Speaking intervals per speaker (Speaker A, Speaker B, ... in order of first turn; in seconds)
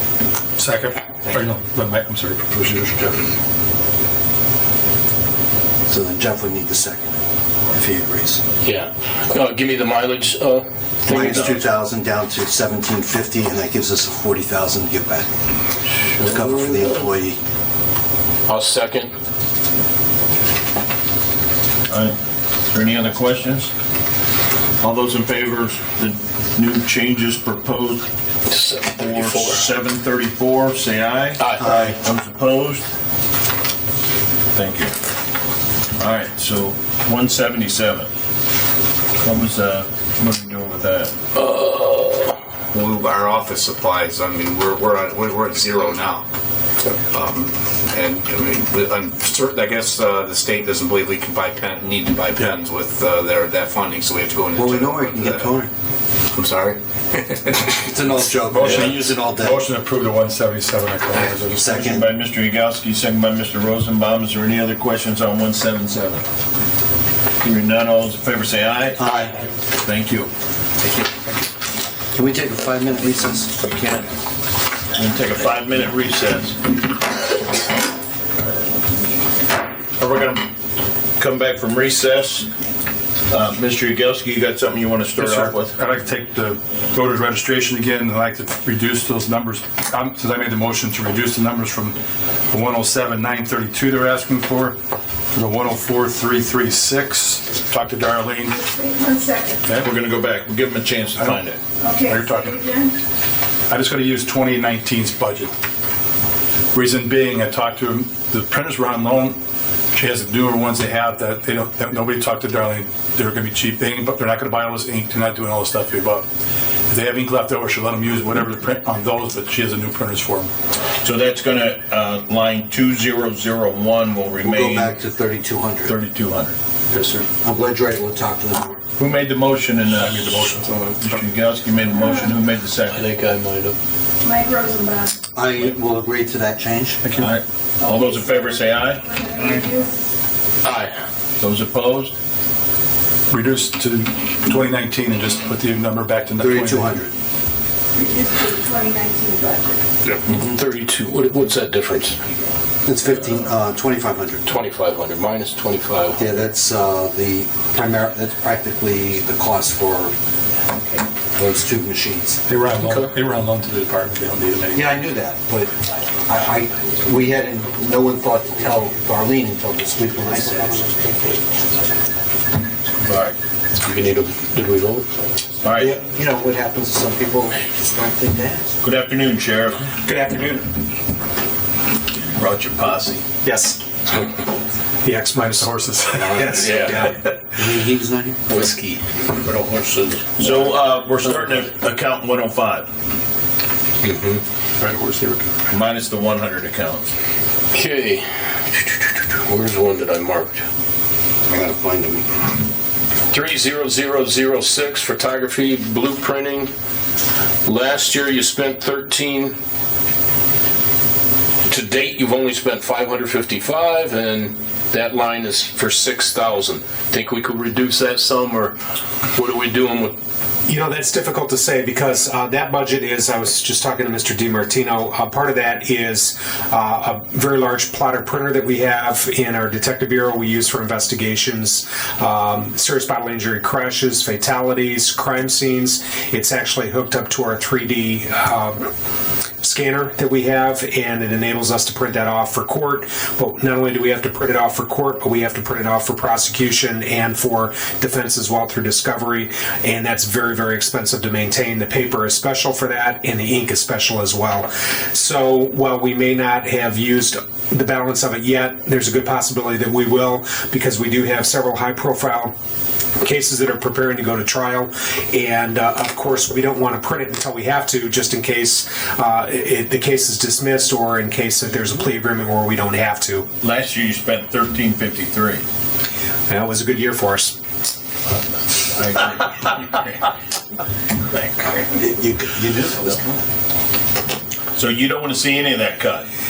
Speaker A: 0.6-3.3, 58.5-61.6, 85.1-92.0, 92.5-94.8, 95.3-98.6, 99.7-99.9, 102.0-102.6, 103.7-105.5, 106.7-109.4, 109.9-116.3, 116.9-120.5, 130.0-131.2, 137.0-137.3, 143.3-147.1, 162.5-165.0, 185.5-186.7, 194.8-195.5
Speaker B: 5.9-7.1, 7.7-8.4, 11.1-15.3, 16.2-17.4, 31.6-31.9, 54.5-55.7, 57.6-59.6, 61.1-62.1, 69.0-69.3, 70.8-71.3, 72.1-73.6, 124.4-125.9, 127.0-128.8, 135.3-137.0, 146.4-147.1, 152.8-154.4, 156.2-160.1, 161.4-162.4, 164.7-165.7, 166.3-171.4, 175.8-178.8, 187.6-188.4, 201.5-202.3, 281.7-283.4
Speaker C: 8.6-11.6, 16.0-17.1, 18.5-19.1, 28.5-29.6, 31.4-31.8, 41.3-42.3, 132.9-133.8, 140.7-140.9, 150.2-152.2, 154.5-156.2, 162.8-163.1, 173.8-175.1, 186.5-187.1, 188.5-190.6, 194.0-194.4, 197.7-200.6, 203.3-206.7, 207.6-209.6, 211.7-218.8, 219.3-220.2
Speaker D: 11.2-11.5, 21.9-22.2, 22.7-23.7, 24.8-28.1, 29.1-32.8, 34.5-35.0, 36.0-38.1, 39.2-41.1, 61.5-66.2, 67.4-69.0, 69.8-70.3, 73.6-74.0, 74.9-76.7, 80.0-80.5, 81.2-82.5, 83.3-85.8, 99.8-101.6, 121.0-125.0, 125.8-126.5, 129.0-130.4, 131.0-133.1, 137.2-139.1, 141.4-142.1, 173.0-173.4, 175.6-175.9, 178.8-179.9, 182.3-183.2, 190.4-192.9, 195.7-197.1, 273.6-275.6, 278.9-280.3, 281.3-281.8, 284.8-286.3
Speaker E: 42.7-46.2, 47.1-55.5, 56.3-56.8
Speaker F: 98.5-99.6, 101.8-102.9, 132.0-132.3, 134.2-135.1, 137.8-139.9, 148.0-149.8
Speaker G: 180.0-180.7, 183.4-183.8, 185.0-187.3, 220.7-238.8, 239.6-262.5, 263.2-273.5, 276.5-277.6